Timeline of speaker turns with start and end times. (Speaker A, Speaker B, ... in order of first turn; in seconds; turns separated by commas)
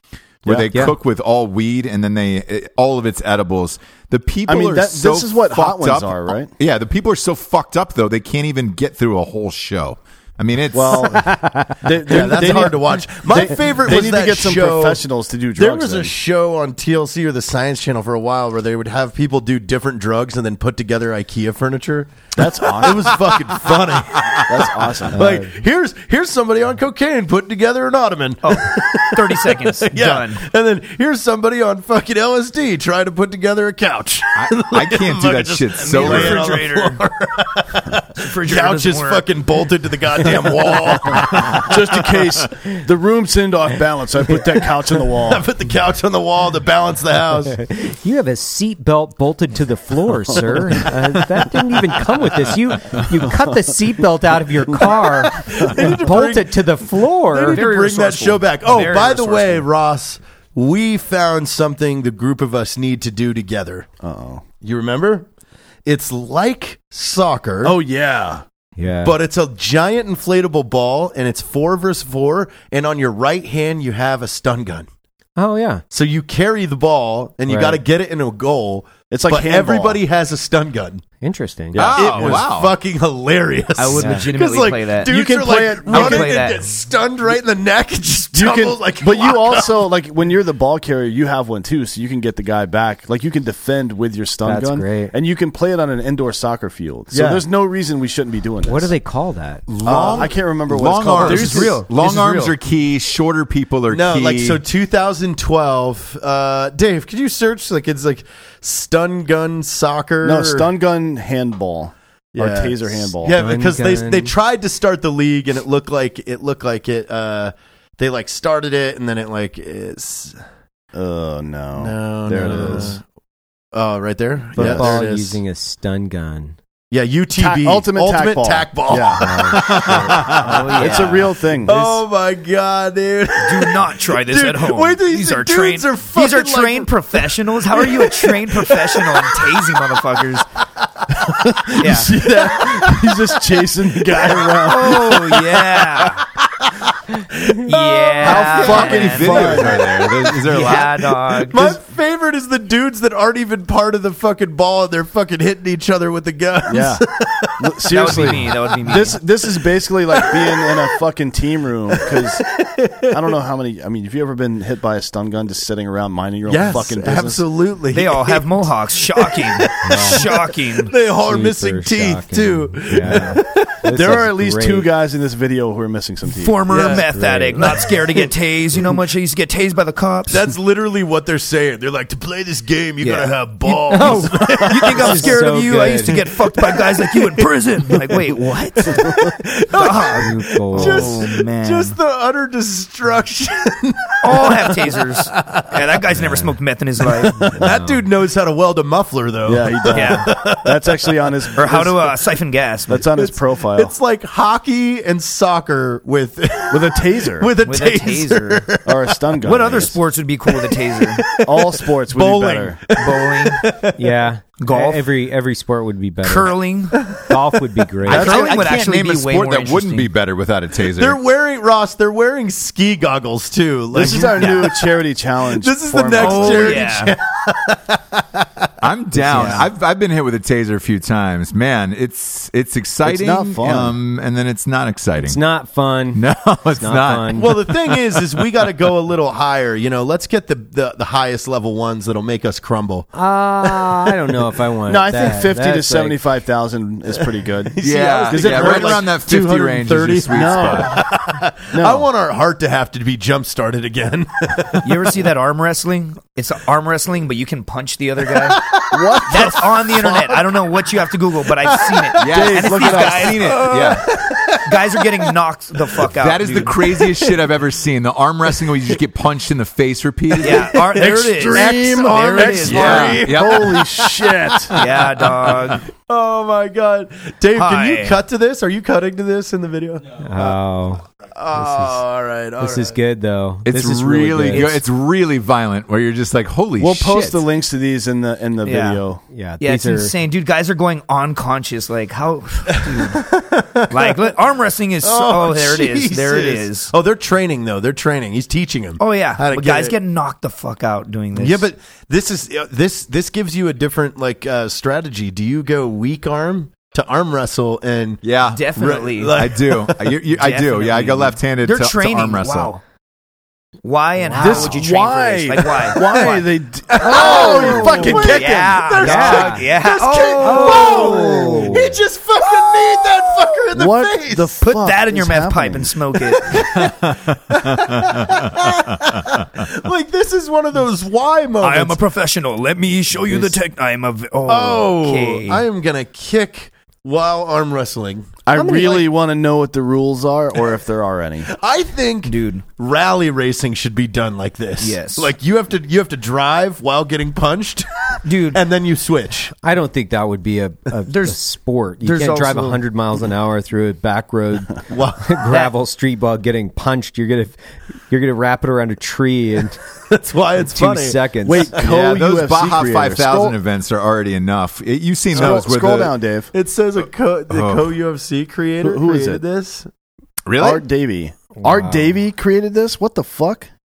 Speaker A: 0.4-11.3, Speaker B: 0.7-0.9, Speaker C: 4.5-6.5, Speaker C: 10.7-16.1, Speaker B: 11.1-12.6, Speaker D: 12.0-15.0, Speaker D: 15.6-42.3, Speaker C: 22.4-23.4, Speaker C: 24.4-25.3, Speaker B: 25.1-25.5, Speaker E: 28.4-30.4, Speaker A: 34.4-36.6, Speaker E: 35.8-37.0, Speaker E: 38.1-39.3, Speaker C: 41.2-45.5, Speaker D: 45.0-47.6, Speaker B: 47.5-57.6, Speaker D: 54.8-63.9, Speaker E: 57.5-59.6, Speaker C: 64.0-64.4, Speaker D: 64.6-65.3, Speaker D: 65.8-67.7, Speaker C: 67.6-68.4, Speaker B: 68.8-69.2, Speaker D: 69.0-74.9, Speaker B: 75.4-75.8, Speaker D: 75.9-81.0, Speaker B: 77.5-77.8, Speaker C: 79.1-80.0, Speaker B: 81.2-81.8, Speaker C: 81.7-82.5, Speaker D: 81.7-89.8, Speaker A: 81.8-82.8, Speaker E: 83.8-85.2, Speaker B: 84.0-84.2, Speaker C: 85.0-86.4, Speaker E: 85.9-86.6, Speaker C: 88.3-98.9, Speaker B: 94.4-95.1, Speaker D: 97.1-97.4, Speaker B: 98.6-99.7, Speaker A: 99.7-104.6, Speaker D: 99.8-100.3, Speaker C: 99.8-101.8, Speaker D: 101.1-102.6, Speaker D: 103.9-110.7, Speaker C: 110.2-113.4, Speaker D: 112.3-120.4, Speaker B: 113.3-114.3, Speaker C: 120.9-123.0, Speaker D: 121.7-123.0, Speaker B: 122.4-122.9, Speaker D: 123.7-125.4, Speaker B: 124.5-126.6, Speaker C: 124.6-125.0, Speaker D: 126.9-140.0, Speaker C: 127.3-132.0, Speaker B: 129.2-129.6, Speaker A: 129.7-130.4, Speaker E: 130.3-131.3, Speaker E: 133.4-140.5, Speaker C: 141.4-145.3, Speaker E: 141.8-142.1, Speaker D: 141.8-143.2, Speaker D: 144.1-144.5, Speaker E: 144.6-146.2, Speaker D: 147.2-159.0, Speaker E: 147.7-149.8, Speaker A: 148.2-151.0, Speaker C: 148.2-149.8, Speaker E: 150.4-151.8, Speaker C: 156.7-157.0, Speaker C: 157.6-162.4, Speaker E: 157.9-159.2, Speaker D: 160.1-160.9, Speaker D: 161.9-163.3, Speaker C: 163.1-167.4, Speaker D: 166.5-173.8, Speaker E: 167.9-170.9, Speaker B: 169.8-170.2, Speaker B: 171.2-174.9, Speaker C: 173.8-176.9, Speaker E: 176.3-180.5, Speaker D: 176.7-177.9, Speaker B: 176.7-177.9, Speaker D: 180.3-195.8, Speaker E: 183.0-192.0, Speaker B: 183.9-186.2, Speaker B: 190.2-191.2, Speaker E: 194.2-197.5, Speaker D: 197.0-200.8, Speaker B: 197.5-198.0, Speaker C: 199.4-202.1, Speaker E: 199.9-200.4, Speaker E: 201.6-203.0, Speaker C: 202.9-203.9, Speaker D: 203.1-208.9, Speaker C: 206.7-207.5, Speaker E: 207.6-208.7, Speaker C: 208.8-210.0, Speaker E: 209.4-211.4, Speaker D: 210.5-214.2, Speaker C: 211.4-212.8, Speaker E: 212.9-213.6, Speaker B: 214.0-218.4, Speaker E: 214.6-215.1, Speaker E: 216.2-217.1, Speaker D: 216.9-218.7, Speaker E: 218.1-220.1, Speaker A: 218.1-221.2, Speaker D: 220.8-224.8, Speaker C: 223.9-226.9, Speaker E: 224.4-224.7, Speaker D: 225.5-228.7, Speaker E: 226.2-227.1, Speaker A: 228.8-235.4, Speaker D: 229.3-229.6, Speaker E: 229.3-229.7, Speaker C: 233.0-233.9, Speaker B: 235.2-236.2, Speaker A: 236.1-238.4, Speaker B: 236.8-237.5, Speaker D: 237.3-244.1, Speaker B: 243.1-246.2, Speaker C: 244.8-249.2, Speaker D: 247.7-255.1, Speaker A: 247.8-251.0, Speaker C: 250.3-251.0, Speaker C: 251.7-252.1, Speaker E: 254.8-258.6, Speaker D: 258.4-260.1, Speaker C: 258.9-260.4, Speaker E: 259.2-263.7, Speaker D: 261.9-262.2, Speaker C: 262.2-263.6, Speaker A: 262.2-264.1, Speaker D: 263.4-265.1, Speaker E: 264.6-266.9, Speaker A: 266.1-270.8, Speaker D: 266.9-267.3, Speaker E: 270.4-273.2, Speaker D: 270.5-274.8, Speaker C: 270.9-274.8, Speaker A: 272.6-273.8, Speaker E: 274.7-275.9, Speaker A: 274.9-275.6, Speaker D: 275.5-280.6, Speaker E: 277.5-278.2, Speaker B: 280.2-282.0, Speaker D: 281.3-282.9, Speaker B: 282.6-284.7, Speaker A: 283.6-287.4, Speaker E: 284.5-284.8, Speaker C: 286.8-289.2, Speaker E: 288.6-289.0, Speaker B: 289.3-290.1, Speaker E: 289.6-293.2, Speaker D: 292.7-294.2, Speaker E: 293.9-296.9, Speaker D: 295.0-299.9, Speaker E: 299.0-301.6, Speaker D: 301.3-308.2, Speaker A: 308.2-312.7, Speaker E: 308.4-309.4, Speaker D: 308.8-310.0, Speaker E: 310.2-312.8, Speaker E: 313.8-316.4, Speaker B: 314.2-314.7, Speaker C: 314.4-319.5, Speaker D: 315.9-316.3, Speaker D: 316.9-324.5, Speaker E: 317.0-321.4, Speaker B: 319.0-319.6, Speaker B: 320.4-321.9, Speaker C: 323.7-325.9, Speaker E: 324.6-326.7, Speaker D: 326.4-332.0, Speaker A: 327.7-329.4, Speaker E: 331.6-335.6, Speaker D: 334.5-338.4, Speaker C: 338.4-341.5, Speaker B: 338.6-339.0, Speaker D: 341.5-349.5, Speaker E: 342.2-342.6, Speaker E: 344.8-345.3, Speaker E: 348.2-348.6, Speaker B: 349.6-357.6, Speaker E: 351.1-351.4, Speaker E: 352.0-352.8, Speaker D: 354.9-355.4, Speaker E: 355.4-355.7, Speaker B: 358.1-359.8, Speaker D: 360.1-361.7, Speaker B: 360.6-361.7, Speaker C: 361.4-363.6, Speaker A: 361.8-366.1, Speaker C: 365.3-366.5, Speaker D: 366.5-369.9, Speaker A: 367.5-367.9, Speaker C: 368.8-369.4, Speaker A: 370.4-370.8, Speaker C: 370.6-373.7, Speaker B: 371.6-372.0